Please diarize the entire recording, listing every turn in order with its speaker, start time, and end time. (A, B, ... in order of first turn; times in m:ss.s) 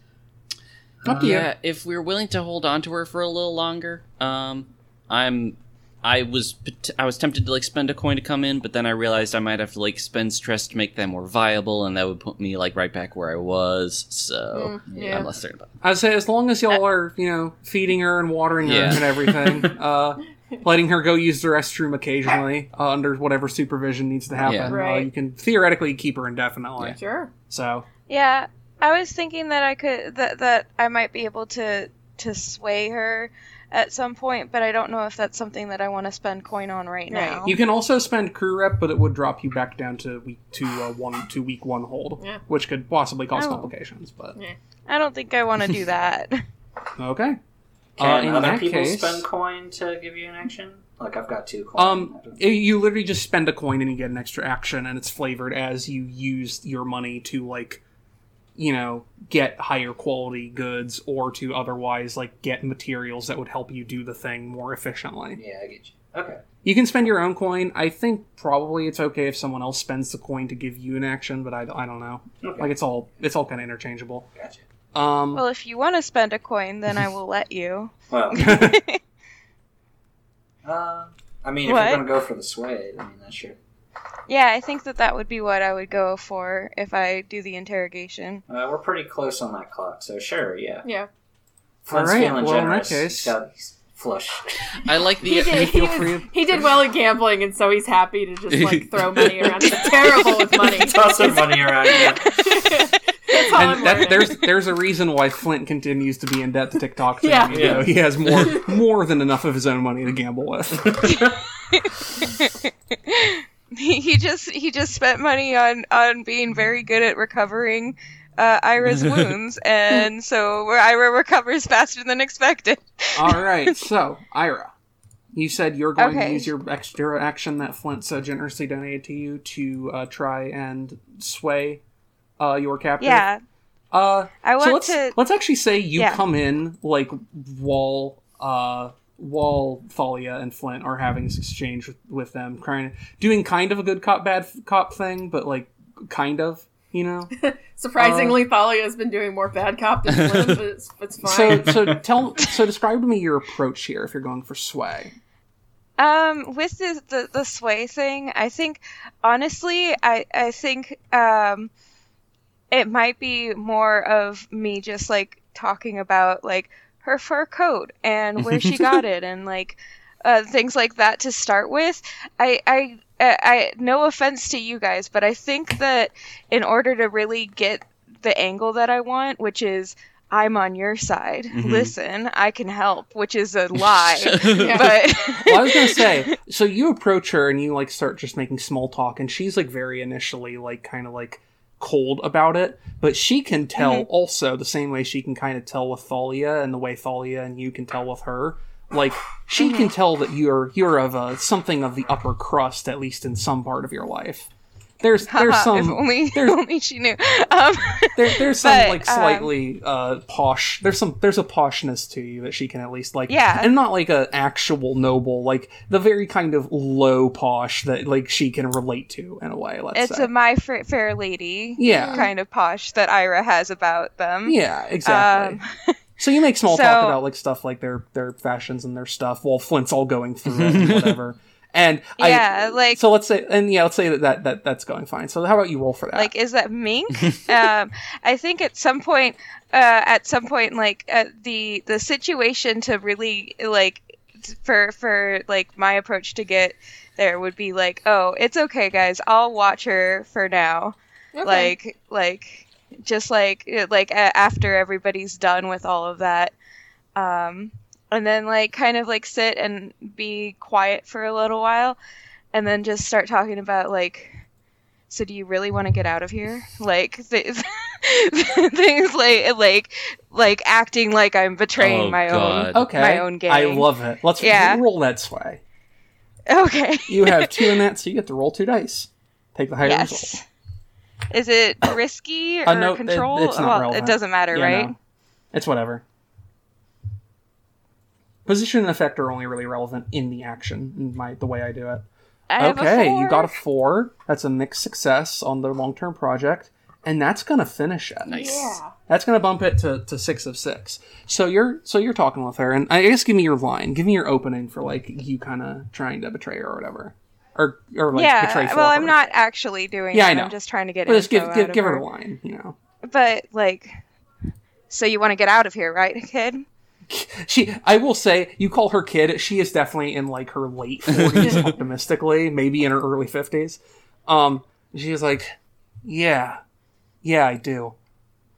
0:01.0-0:01.4 A
0:01.0-0:15.7 B
0:01.1-0:01.5 C
0:14.5-0:15.3 D
0:14.9-0:15.2 A
0:15.8-0:27.0 C
0:18.6-0:19.7 B
0:18.9-0:19.6 A
0:24.4-0:24.8 B
0:24.7-0:25.1 D
0:26.9-0:27.3 D
0:27.5-0:27.9 C
0:28.1-0:37.6 E
0:37.1-0:37.6 D
0:37.4-0:44.4 C
0:43.4-0:43.7 E
0:44.9-0:46.4 E
0:47.0-0:47.4 C
0:48.0-0:52.4 A
0:48.0-0:49.3 C
0:51.8-0:57.8 C
0:58.6-1:05.4 C
1:05.4-1:06.4 A
1:06.6-1:14.3 C
1:12.4-1:12.7 A
1:14.4-1:14.6 A
1:14.9-1:15.4 C
1:15.3-1:19.0 E
1:18.1-1:18.6 A
1:18.3-1:18.8 C
1:20.6-1:23.6 A
1:21.6-1:22.0 E
1:24.3-1:28.4 E
1:28.5-1:30.9 A
1:30.8-1:31.1 D
1:31.8-1:33.4 C
1:31.9-1:34.9 A
1:34.9-1:35.8 B
1:35.2-1:44.4 D
1:35.3-1:36.6 C
1:38.5-1:40.2 B
1:40.4-1:42.7 A
1:43.5-1:51.2 C
1:47.2-1:47.9 D
1:47.5-1:48.0 A
1:50.8-1:51.4 A
1:51.2-2:03.5 E
1:58.8-1:59.3 B
2:03.2-2:04.7 C
2:05.3-2:11.8 C
2:06.0-2:06.5 E
2:12.4-2:13.2 C
2:13.0-2:13.4 E
2:13.9-2:27.3 C
2:14.4-2:15.2 E
2:27.4-2:31.8 D
2:28.0-2:28.4 C
2:30.2-2:30.6 B
2:31.2-2:35.1 C
2:36.0-2:41.7 E
2:42.7-3:06.3 E
3:01.5-3:01.9 B
3:03.9-3:04.8 B
3:04.5-3:04.9 D
3:05.4-3:24.5 C
3:13.8-3:14.0 E
3:19.6-3:19.9 E
3:25.0-3:26.6 C
3:25.3-3:29.5 E
3:28.2-3:40.3 C
3:33.3-3:33.7 E
3:40.0-3:46.0 E
3:41.8-3:42.3 C
3:41.9-3:42.3 D
3:44.5-3:45.6 C
3:46.2-3:56.3 C
3:46.6-3:47.2 E
3:50.6-3:51.0 B
3:52.2-3:53.0 E
3:56.2-4:16.5 E
4:11.4-4:11.7 D
4:17.2-4:22.0 E
4:22.5-4:24.4 E
4:25.1-4:34.8 E
4:31.8-4:32.8 B
4:32.7-4:35.6 C
4:36.5-4:37.8 E
4:37.1-4:40.3 C
4:39.8-4:40.4 E
4:41.3-4:44.9 E
4:42.7-4:44.9 C
4:45.5-4:46.0 C
4:48.5-4:52.0 C
4:52.5-4:53.5 E
4:52.6-5:09.2 C
4:58.3-4:58.7 B
4:58.3-4:58.9 D
5:08.1-5:12.0 E
5:10.1-5:10.6 C
5:11.1-5:12.8 C
5:13.0-5:14.0 E
5:14.9-5:16.7 E
5:17.1-5:26.6 C
5:21.2-5:21.6 B
5:27.2-5:28.0 C